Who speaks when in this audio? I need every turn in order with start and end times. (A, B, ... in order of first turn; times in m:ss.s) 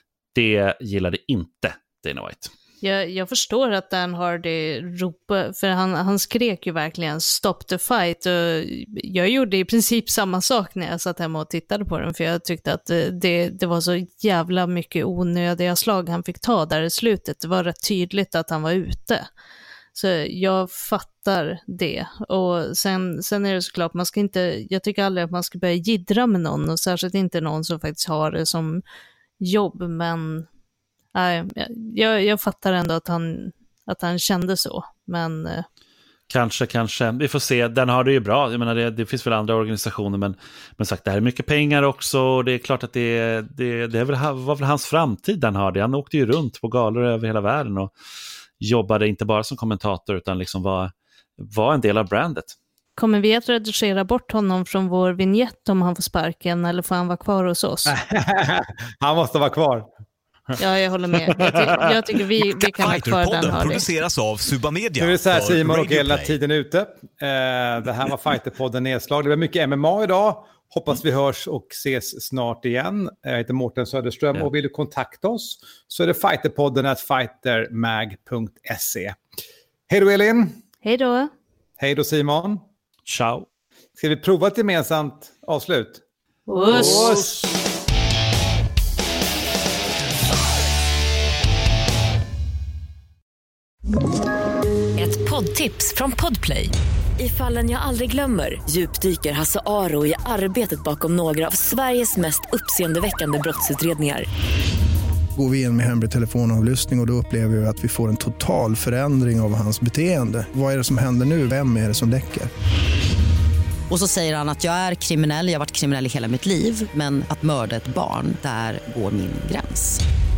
0:00.3-0:02.5 A
0:02.8-0:19.3 B
0:20.0-0:28.8 B
0:29.4-0:30.5 B
0:31.1-0:35.7 B
0:36.3-0:47.9 A
0:48.6-0:52.6 A
0:53.0-0:58.0 B
0:57.9-0:59.9 C
1:00.6-1:03.9 B
1:02.4-1:06.4 D
1:05.0-1:19.2 C
1:19.9-1:20.6 C
1:20.8-1:21.3 B
1:21.8-1:22.6 C
1:23.1-1:23.5 A
1:24.0-1:26.0 C
1:26.5-1:27.2 B
1:26.7-1:27.4 C
1:35.0-1:44.3 E
1:45.4-1:52.5 F
1:53.9-2:00.0 G